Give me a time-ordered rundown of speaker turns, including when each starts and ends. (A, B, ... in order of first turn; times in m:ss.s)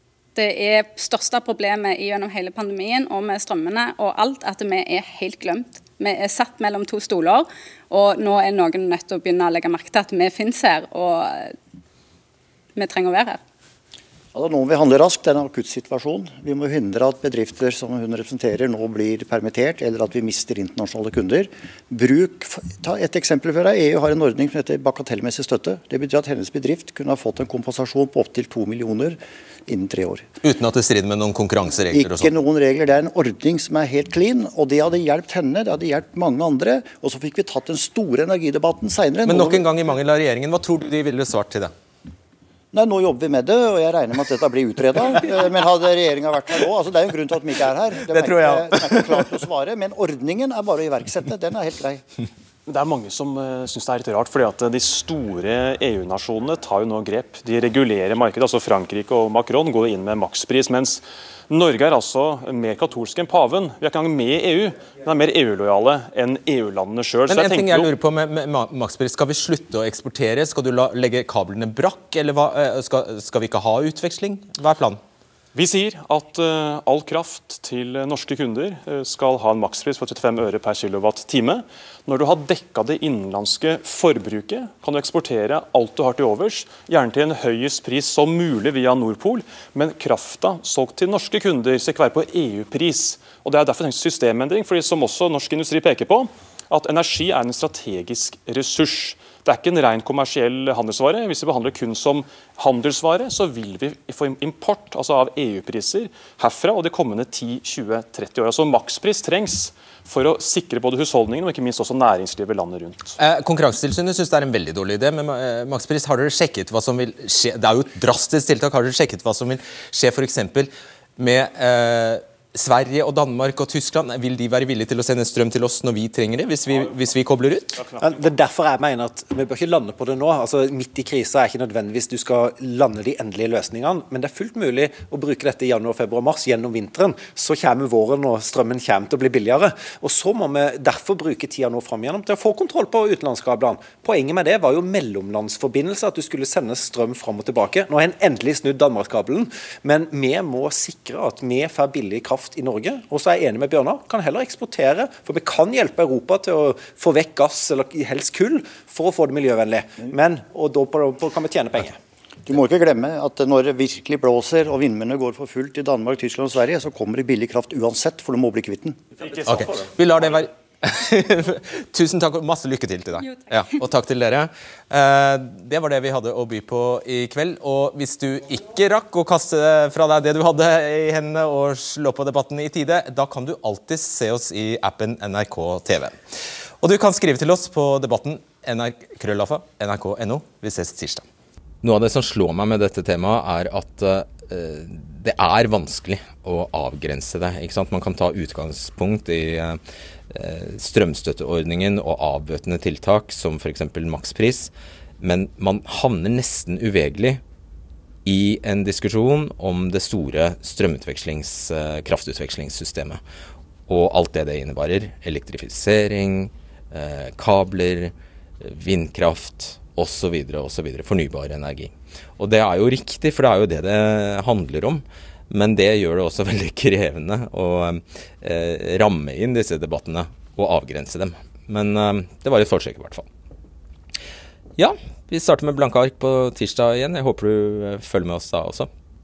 0:00.3-0:11.5 A
0:12.7-0:13.4 A
0:14.3-0:30.2 B
0:30.4-0:32.3 C
0:31.9-0:39.6 B
0:39.2-0:41.7 C
0:42.7-0:52.0 B
0:48.1-0:49.3 C
0:52.7-1:07.9 D
1:07.3-1:15.0 C
1:15.5-1:53.1 D
1:53.2-2:07.8 C
2:08.0-2:42.0 E
2:42.4-2:49.0 B
2:49.2-2:49.7 D
2:49.4-3:06.2 C
3:06.8-3:11.2 C
3:11.8-3:27.4 C
3:28.2-3:33.2 C
3:33.9-3:53.3 C
3:54.8-3:58.9 C